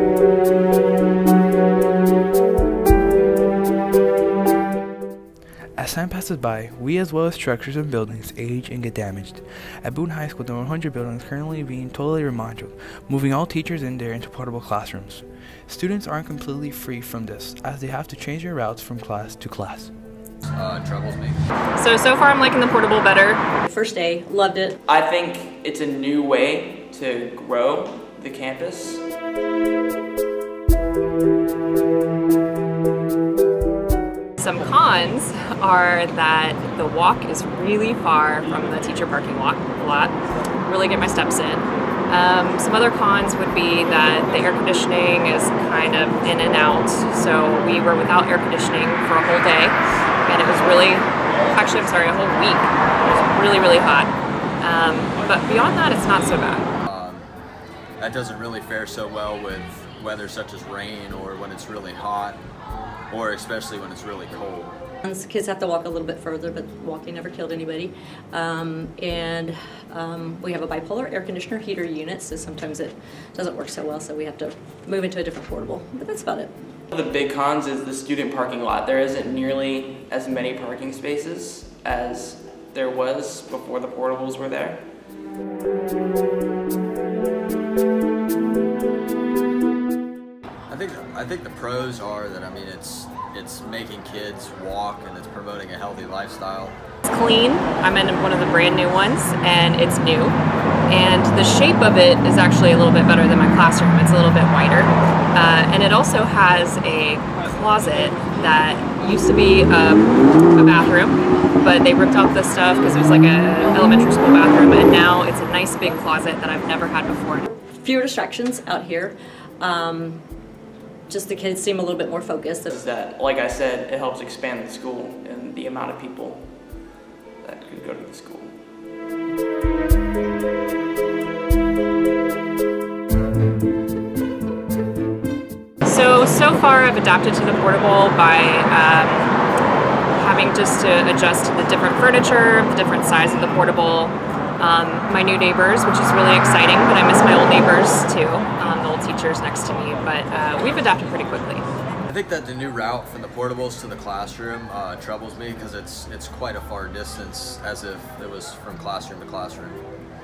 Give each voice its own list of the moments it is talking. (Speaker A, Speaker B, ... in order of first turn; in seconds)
Speaker A: 5.8-19.9
Speaker B: 20.5-21.4, 56.8-57.3, 58.0-62.4, 63.1-64.8, 90.7-96.8, 152.1-159.8
Speaker C: 21.8-23.4, 34.4-56.7, 97.0-117.5, 135.8-139.3, 140.2-151.7
Speaker D: 23.6-24.8, 65.0-76.5, 117.7-120.2, 121.1-122.8
Speaker E: 24.9-29.0, 76.9-84.9, 122.7-126.6, 127.4-128.5